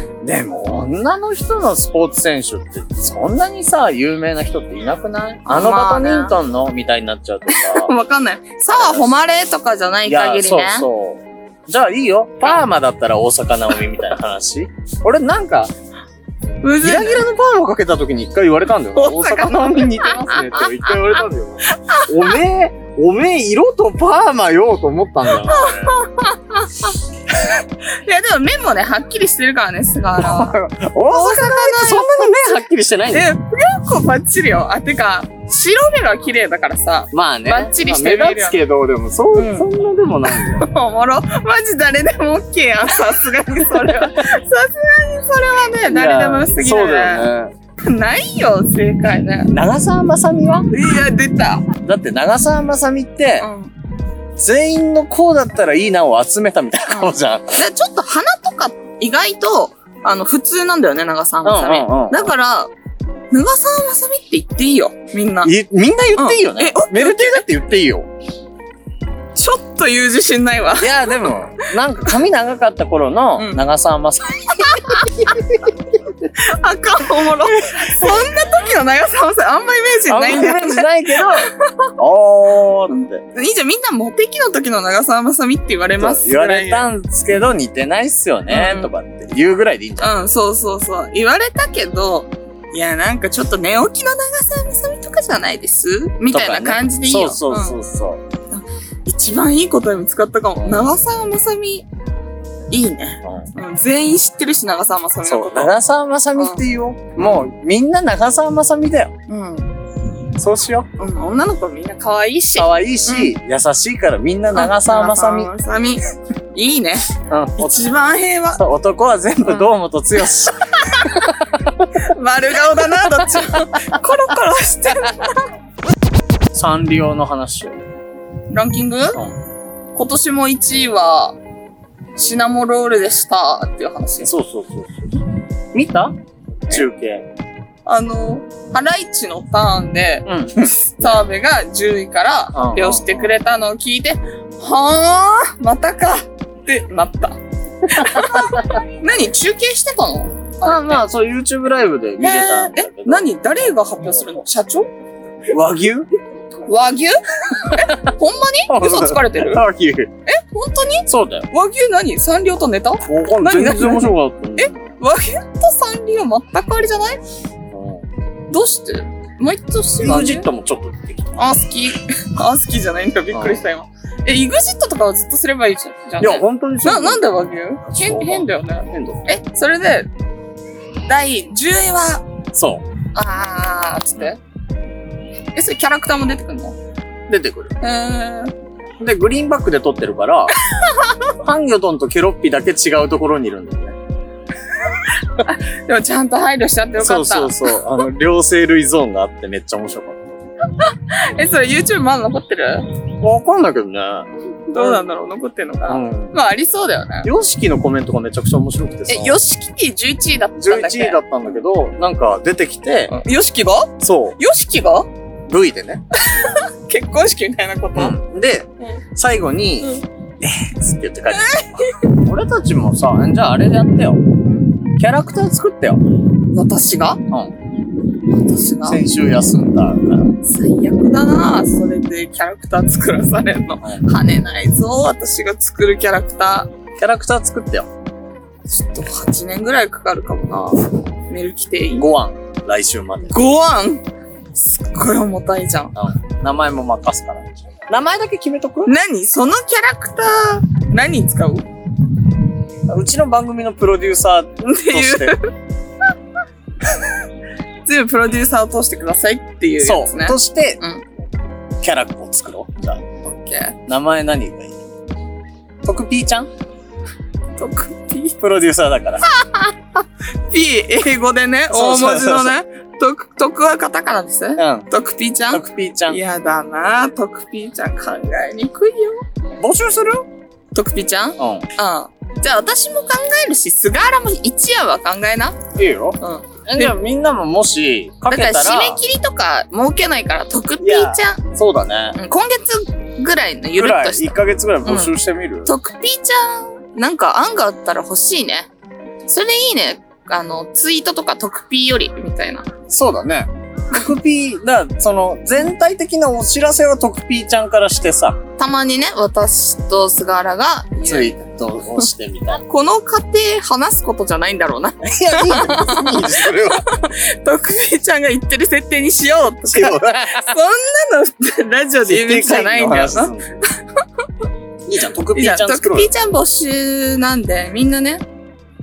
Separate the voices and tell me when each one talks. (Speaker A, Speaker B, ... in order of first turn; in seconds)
Speaker A: 0.2-7.9, 8.7-9.1, 10.1-15.7, 16.8-26.0, 30.2-33.3, 37.1-40.7, 43.7-44.1, 45.9-47.5, 49.5-50.7, 51.8-53.5, 54.4-57.6, 61.4-62.3, 65.4-68.1, 70.8-75.8, 80.1-83.2, 86.0-90.2, 96.3-98.2, 100.6-101.0, 103.2-103.5, 105.3-109.1, 110.3-110.9, 112.6-115.5, 117.3-117.8, 118.6-121.9, 123.0-123.6, 126.5-127.8, 134.2-135.2, 135.7-136.2, 136.7-137.3, 140.3-141.2, 142.5-143.3, 147.9-148.8, 150.6-153.3, 155.5-156.1, 157.7-158.1, 158.7-160.1, 161.1-161.5, 163.1-164.9, 167.7-168.1, 170.0-171.4, 173.3-173.6, 176.2-179.2, 182.5-182.9, 187.3-187.8, 189.0-190.6, 191.3-194.0, 197.0-200.4, 203.2-205.1, 205.9-206.3, 207.2-209.4, 210.6-213.2, 214.0-214.4, 215.5-216.1, 217.9-224.2, 225.0-226.0, 227.3-227.5, 228.8-230.3, 237.0-237.9, 242.0-243.5, 245.9-248.9, 252.9-255.4, 259.8-260.8, 261.8-263.1, 263.9-264.8, 265.8-266.5, 268.4-269.2, 271.7-272.6, 274.6-274.9, 275.5-276.2, 279.6-280.3, 281.4-281.7, 285.7-289.0, 290.8-292.2, 293.8-295.7, 302.9-308.4, 311.1-312.6, 315.0-316.9, 319.7-320.4, 322.1-323.6, 324.9-326.1
Speaker B: 5.5-6.4, 7.5-10.9, 16.6-17.2, 19.0-22.4, 25.3-30.6, 31.1-32.6, 33.1-38.6, 39.4-39.7, 40.3-47.3, 47.8-49.5, 50.7-51.7, 53.4-53.7, 56.9-62.7, 63.3-65.5, 66.2-67.4, 69.4-71.7, 73.4-73.6, 74.5-75.4, 76.3-81.9, 82.9-86.9, 88.5-88.9, 90.0-97.8, 98.5-101.9, 102.7-105.8, 106.4-106.6, 107.2-107.5, 109.3-109.8, 111.0-113.3, 114.5-116.0, 116.5-118.6, 120.8-121.3, 122.0-125.5, 128.5-129.2, 129.9-131.4, 132.2-134.3, 137.9-151.0, 152.2-154.9, 156.7-159.7, 160.3-167.2, 168.5-170.5, 171.4-180.1, 181.1-182.3, 183.1-184.4, 185.6-186.8, 187.8-188.5, 190.7-191.3, 195.4-197.8, 200.8-202.9, 204.7-207.3, 209.1-211.2, 213.1-215.1, 216.2-218.2, 221.3-222.1, 226.5-227.2, 228.3-229.0, 230.4-236.7, 238.7-242.1, 243.3-244.0, 244.6-245.9, 248.8-251.7, 254.7-255.5, 257.9-261.0, 263.2-263.8, 267.6-268.4, 269.3-269.8, 270.5-279.2, 280.7-285.6, 286.2-287.0, 288.3-291.4, 292.2-298.7, 299.3-302.7, 308.6-311.4, 312.6-323.3, 325.4-328.2